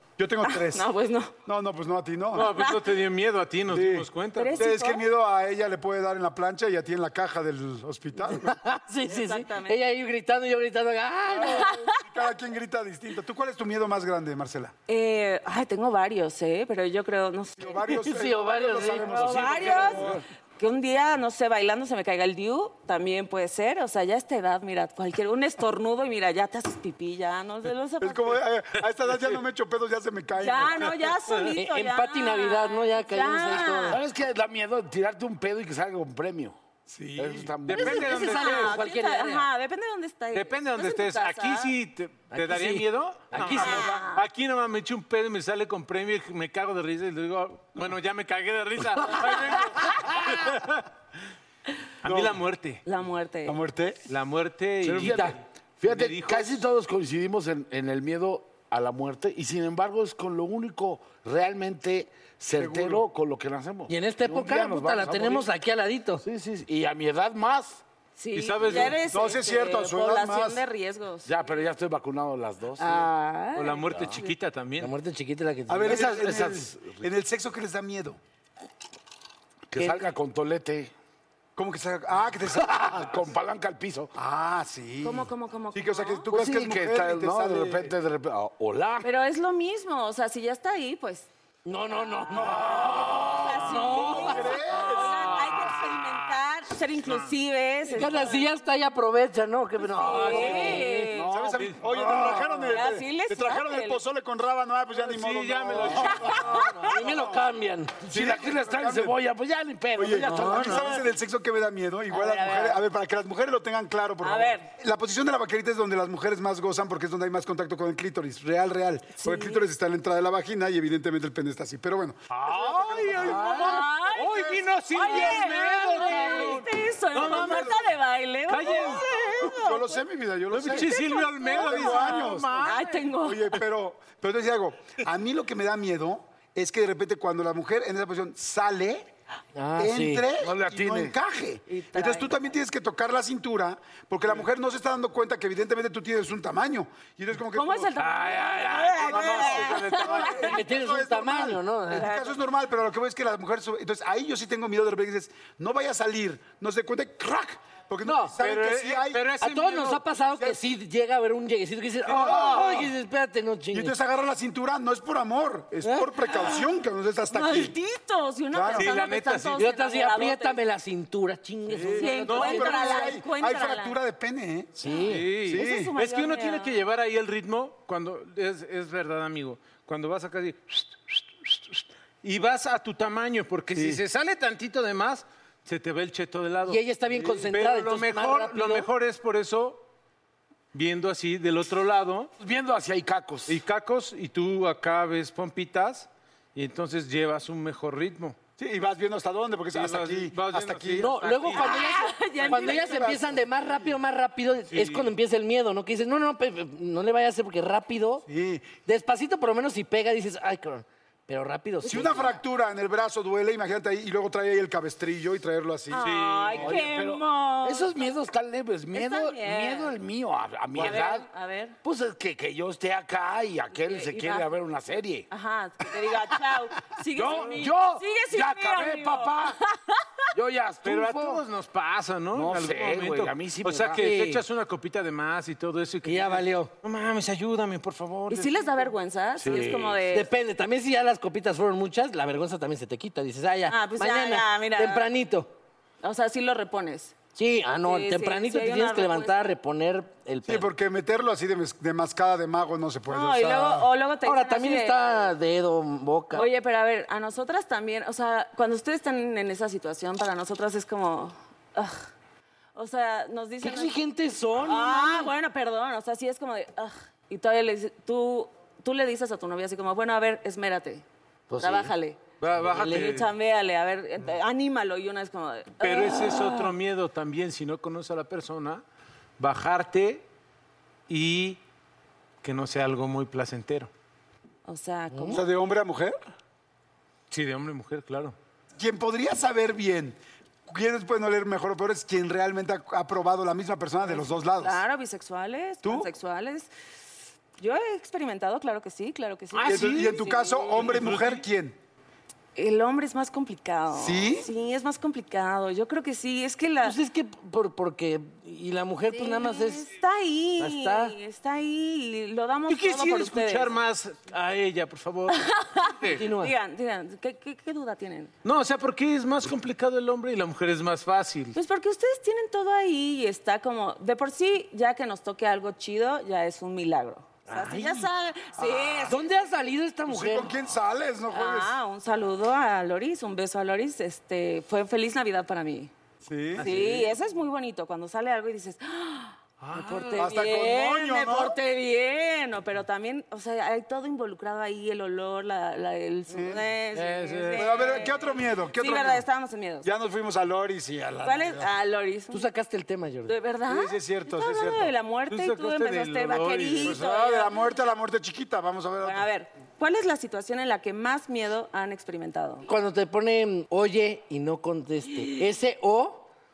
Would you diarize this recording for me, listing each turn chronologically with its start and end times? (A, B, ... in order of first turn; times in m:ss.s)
0:00.2-0:00.9 A
0:00.4-0:01.3 B
0:01.4-0:02.6 A
0:02.3-0:04.7 C
0:02.4-0:02.8 B
0:03.7-0:08.6 A
0:04.4-0:05.1 B
0:08.4-0:11.8 D
0:09.0-0:09.8 B
0:11.4-0:12.0 B
0:11.5-0:14.7 A
0:14.9-0:17.8 B
0:17.6-0:20.2 A
0:17.9-0:19.1 D
0:19.1-0:28.4 B
0:19.1-0:20.2 E
0:28.0-0:30.9 A
0:30.4-0:34.0 B
0:30.9-0:31.5 C
0:31.5-0:34.0 D
0:33.9-0:36.6 E
0:36.9-0:37.5 A
0:37.2-0:38.0 E
0:37.7-0:38.8 C
0:37.7-0:41.7 B
0:37.7-0:39.5 D
0:40.3-0:50.8 C
0:42.3-0:44.0 D
0:43.5-0:44.2 B
0:52.0-0:52.8 C
0:52.0-0:52.4 A
0:52.8-0:53.6 B
0:53.4-0:54.0 A
0:54.1-0:56.6 C
0:54.8-1:05.5 E
0:55.0-0:55.3 D
1:02.6-1:03.0 A
1:03.9-1:06.2 D
1:06.2-1:07.8 E
1:08.2-1:11.4 B
1:08.3-1:09.0 C
1:09.0-1:10.6 A
1:11.2-1:13.1 E
1:12.8-1:14.3 B
1:13.5-1:14.9 C
1:14.8-1:16.1 D
1:15.7-1:18.2 A
1:15.8-1:17.0 E
1:19.7-1:20.9 E
1:19.8-1:20.1 D
1:21.6-1:23.2 A
1:22.6-1:24.1 E
1:24.1-1:27.9 A
1:25.0-1:26.3 B
1:26.3-1:29.1 E
1:29.0-1:31.3 B
1:31.6-1:34.8 D
1:32.2-1:38.5 B
1:32.3-1:35.4 A
1:34.9-1:35.8 C
1:35.8-1:36.2 E
1:37.0-1:37.3 C
1:37.9-1:41.1 D
1:39.8-1:41.4 B
1:40.3-1:47.4 A
1:41.2-1:41.7 E
1:41.9-1:42.7 D
1:42.7-1:44.0 B
1:45.0-1:46.4 C
1:46.0-1:48.0 D
1:46.2-1:46.9 B
1:48.1-1:49.2 A
1:48.1-1:50.9 E
1:50.0-2:05.3 A
1:50.2-1:51.0 D
1:52.2-1:52.7 B
1:54.2-1:54.7 B
2:02.3-2:07.9 C
2:03.2-2:10.0 B
2:06.1-2:06.4 A
2:07.2-2:07.8 A
2:08.5-2:09.5 C
2:08.7-2:19.1 A
2:10.5-2:13.1 C
2:10.6-2:13.6 B
2:19.5-2:20.3 D
2:19.8-2:28.0 A
2:20.4-2:21.1 E
2:21.7-2:22.5 B
2:27.5-2:30.6 B
2:28.5-2:29.1 E
2:28.9-2:39.2 A
2:29.4-2:30.4 C
2:30.4-2:32.1 D
2:31.9-2:32.4 B
2:38.0-2:38.3 D
2:38.4-2:40.0 C
2:39.4-2:43.9 D
2:42.1-2:42.9 A
2:43.7-2:47.8 A
2:45.8-2:46.1 D
2:47.3-2:50.6 B
2:48.5-2:48.9 A
2:48.7-2:49.6 C
2:49.6-2:53.0 D
2:51.7-2:54.8 A
2:51.9-2:54.0 B
2:52.3-2:52.7 C
2:54.8-2:55.3 D
2:54.9-2:56.8 B
2:55.1-3:06.8 C
2:55.5-2:55.9 A
3:03.7-3:04.0 A
3:06.7-3:08.9 D
3:07.5-3:09.8 C
3:10.7-3:12.3 C
3:12.4-3:13.6 E
3:13.5-3:18.4 C
3:18.6-3:21.1 A
3:19.7-3:21.8 C
3:21.0-3:28.2 D
3:21.5-3:23.2 B
3:22.4-3:23.4 A
3:24.7-3:25.1 C
3:28.3-3:28.7 A
3:28.8-3:32.4 D
3:31.8-3:36.1 A
3:31.8-3:32.3 B
3:35.9-3:38.1 B
3:36.0-3:37.0 C
3:36.6-3:41.3 E
3:38.9-3:40.0 B
3:40.7-3:41.8 B
3:41.8-3:45.3 E
3:43.7-3:44.5 B
3:45.3-3:50.2 B
3:47.1-3:49.6 E
3:50.3-3:51.4 E
3:50.8-3:58.9 C
3:52.3-3:54.0 E
3:53.9-3:54.4 D
3:56.0-3:56.7 D
3:58.3-4:00.3 B
3:59.4-4:00.0 E
4:00.1-4:05.5 D
4:03.7-4:05.1 B
4:06.0-4:07.1 B
4:07.4-4:10.7 D
4:07.8-4:09.5 B
4:10.5-4:13.9 A
4:13.1-4:15.3 B
4:14.2-4:16.5 D
4:16.3-4:22.1 B
4:22.7-4:23.9 B
4:23.6-4:25.3 D
4:24.6-4:31.0 B
4:31.5-4:31.9 D
4:31.6-4:32.2 B
4:32.4-4:33.3 C
4:32.7-4:33.2 D
4:32.7-4:36.7 B
4:35.8-4:38.8 C
4:39.4-4:40.2 C
4:41.1-4:41.6 C
4:42.4-4:43.9 C
4:44.6-4:45.4 B
4:45.1-4:45.4 D
4:45.3-4:46.2 A
4:47.3-4:48.4 C
4:48.8-4:54.8 A
4:54.1-4:56.7 B
4:55.8-4:56.1 A
4:57.6-5:00.9 B
4:59.5-5:01.4 C
4:59.6-5:01.8 A
5:02.5-5:07.0 B
5:03.9-5:04.5 A
5:06.8-5:09.9 D
5:09.1-5:13.8 B
5:10.6-5:11.2 D
5:12.7-5:16.2 C
5:15.3-5:18.3 B
5:16.1-5:16.5 D
5:18.4-5:21.6 C
5:21.5-5:29.4 B
5:27.5-5:28.1 D
5:28.6-5:29.1 A
5:29.0-5:30.5 D
5:30.1-5:31.8 A
5:31.3-5:35.9 B
5:36.2-5:36.7 A
5:36.6-5:37.1 C
5:36.6-5:49.9 B
5:39.6-5:40.3 C
5:39.7-5:40.2 D
5:40.2-5:41.6 A
5:46.3-5:46.6 A
5:47.0-5:47.9 C
5:47.1-5:47.6 D
5:47.5-5:49.3 A
5:49.8-5:51.7 A
5:51.2-5:52.4 B
5:52.3-5:53.4 D
5:53.2-5:57.6 B
5:53.7-5:54.9 A
5:55.3-5:57.0 C
5:56.8-5:59.3 A
5:59.0-6:02.6 B
6:02.6-6:06.3 D